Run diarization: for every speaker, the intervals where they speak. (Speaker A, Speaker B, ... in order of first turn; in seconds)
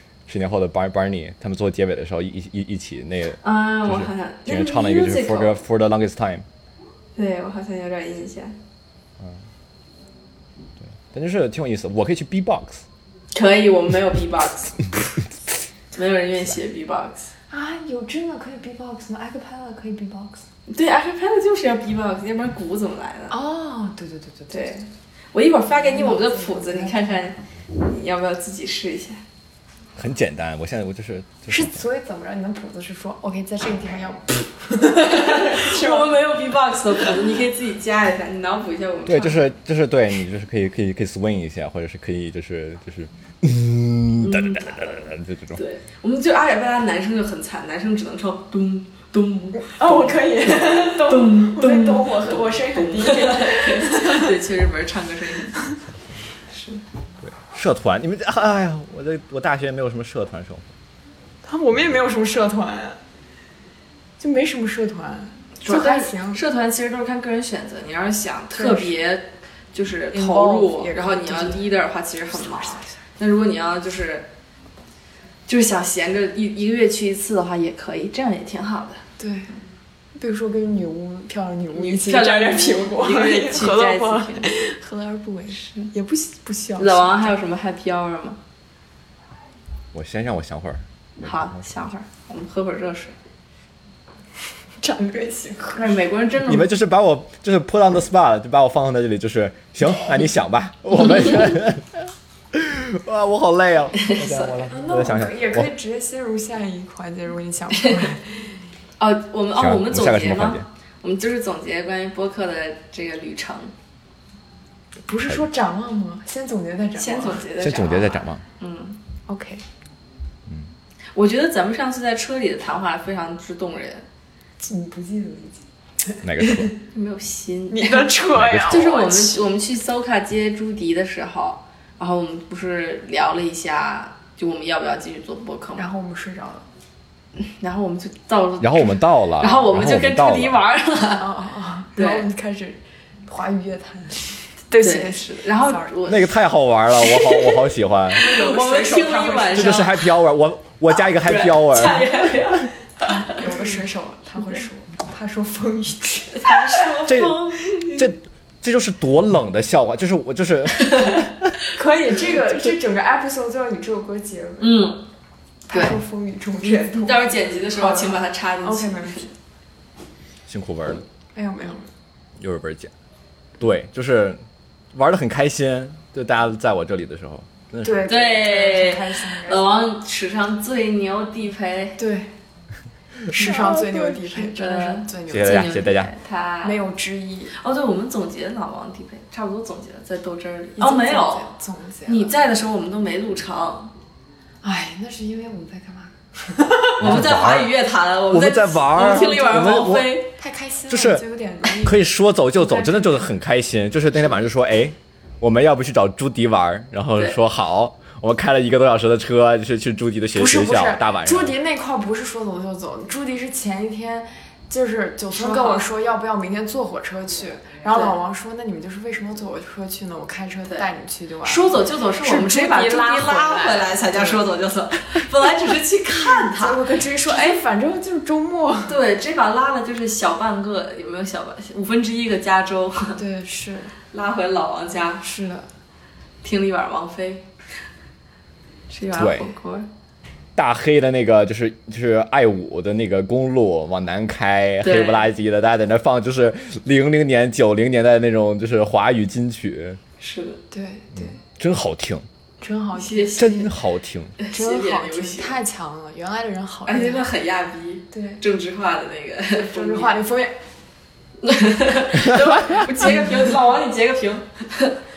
Speaker A: 0.3-6.5, 9.2-9.4, 10.9-12.8, 30.0-31.9, 39.1-45.6, 57.2-60.7, 89.9-91.8, 96.5-105.7, 109.6-110.7, 117.6-118.4, 126.2-126.7, 128.3-128.9, 138.6-140.6, 146.1-148.2, 149.5-152.1, 157.1-161.5, 170.5-171.1, 172.4-172.9, 173.6-174.4, 174.9-178.1, 185.3-186.1, 197.0-197.7, 198.3-200.2, 200.9-211.6, 239.1-239.5, 240.6-250.0, 251.2-252.3, 253.4-254.3
Speaker B: 3.4-5.6, 7.2-8.6, 13.3-14.8, 15.9-17.3, 20.7-23.4, 24.5-29.2, 35.0-39.5, 44.2-44.8, 45.6-55.7, 56.5-56.8, 65.6-74.3, 75.5-79.0, 81.7-84.5, 85.5-85.9, 86.8-88.4, 91.2-93.2, 95.8-96.7, 104.0-104.5, 109.0-113.7, 117.0-119.0, 121.2-124.0, 126.9-128.1, 128.7-135.9, 137.4-141.3, 142.0-142.3, 144.8-146.3, 147.0-150.1, 150.9-153.7, 156.3-158.1, 160.8-161.3, 164.6-165.0, 165.7-166.0, 166.7-169.3, 178.1-182.0, 183.4-186.8, 187.6-191.5, 192.1-193.9, 197.0-200.3, 215.3-215.9, 217.9-218.2, 221.4-226.8, 228.9-233.2, 234.1-235.2, 236.4-237.5, 238.9-239.9, 244.8-245.3, 250.2-250.6, 253.0-253.6, 254.4-255.6, 256.9-260.2, 261.4-265.0
Speaker C: 17.5-20.4, 23.3-24.7, 25.7-27.2, 31.5-36.1, 49.6-54.3, 61.5-63.0, 64.2-66.4, 68.5-69.0, 70.1-71.7, 72.3-73.0, 79.2-79.5, 80.2-87.4, 94.8-96.0, 104.6-108.5, 115.1-117.5, 119.3-119.6, 124.6-126.7, 127.7-129.4, 135.8-136.7, 141.2-145.9, 148.1-149.9, 153.0-156.9, 161.7-164.8, 165.7-169.3, 171.3-171.9, 177.8-179.7, 182.0-182.3, 183.3-185.8, 186.6-187.5, 190.8-192.3, 194.6-197.2, 199.0-199.9, 200.4-202.1, 202.6-203.2, 210.3-224.4, 226.1-229.0, 233.2-233.9, 235.2-235.7, 250.7-251.4, 252.6-253.7, 254.5-257.3, 258.1-258.4, 259.5-260.6, 262.8-263.3